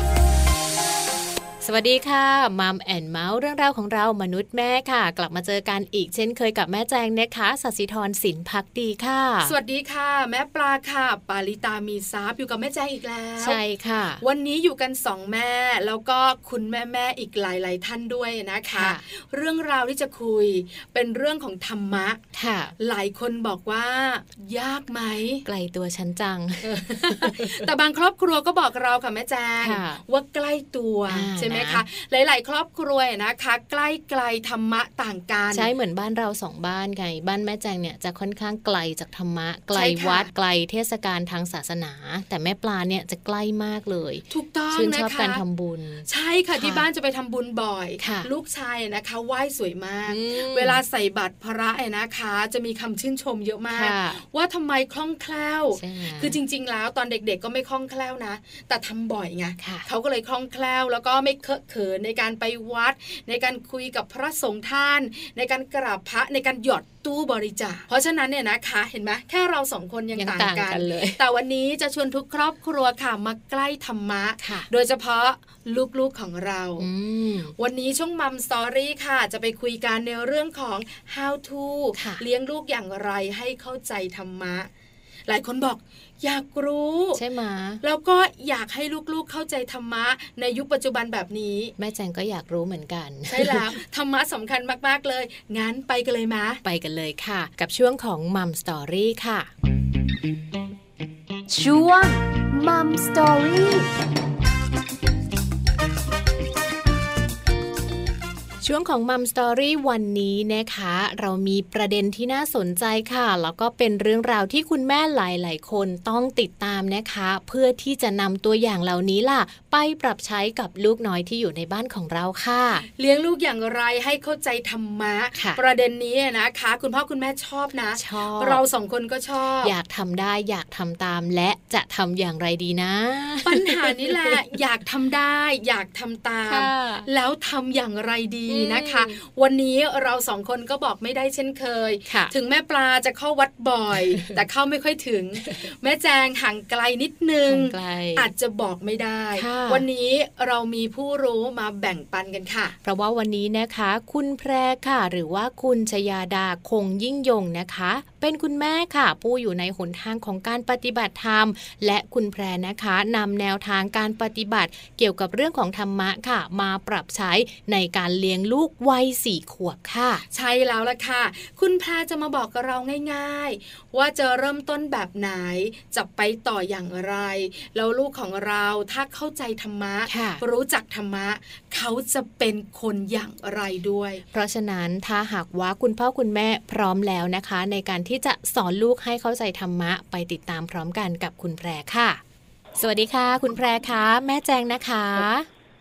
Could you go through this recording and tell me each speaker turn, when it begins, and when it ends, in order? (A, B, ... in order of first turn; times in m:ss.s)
0:01.6-0:09.6 A
0:09.4-0:13.6 B
0:13.4-0:14.2 A
0:14.2-0:22.2 B
0:18.7-0:19.0 A
0:22.3-0:22.8 A
0:22.8-0:25.4 B
0:25.4-0:27.7 A
0:26.6-0:35.7 B
0:29.6-0:30.0 A
0:31.1-0:31.8 A
0:35.5-0:46.8 A
0:39.7-0:40.3 B
0:44.3-0:45.4 B
0:46.1-1:16.9 B
0:48.0-0:48.3 A
0:50.1-0:50.8 A
0:53.7-0:54.2 A
0:55.7-0:56.4 A
0:59.6-0:59.9 A
1:10.2-1:11.2 A
1:14.4-1:14.7 A
1:16.8-1:17.5 A
1:17.6-1:24.7 B
1:22.0-1:22.2 A
1:25.3-1:27.2 B
1:27.2-1:27.8 A
1:27.8-1:31.7 B
1:31.8-1:33.7 A
1:33.3-1:36.6 B
1:36.6-1:39.5 A
1:41.5-1:43.9 C
1:48.6-2:02.8 A
2:02.9-2:09.7 B
2:05.4-2:05.6 A
2:08.0-2:08.6 A
2:09.6-2:14.4 A
2:13.4-2:32.8 B
2:16.5-2:17.1 A
2:18.5-2:19.2 A
2:22.1-2:22.3 A
2:24.0-2:24.4 A
2:27.5-2:28.3 A
2:29.3-2:29.9 A
2:32.8-2:50.2 A
2:50.3-3:04.2 B
3:00.1-3:00.4 A
3:04.3-3:12.2 A
3:12.8-3:15.5 A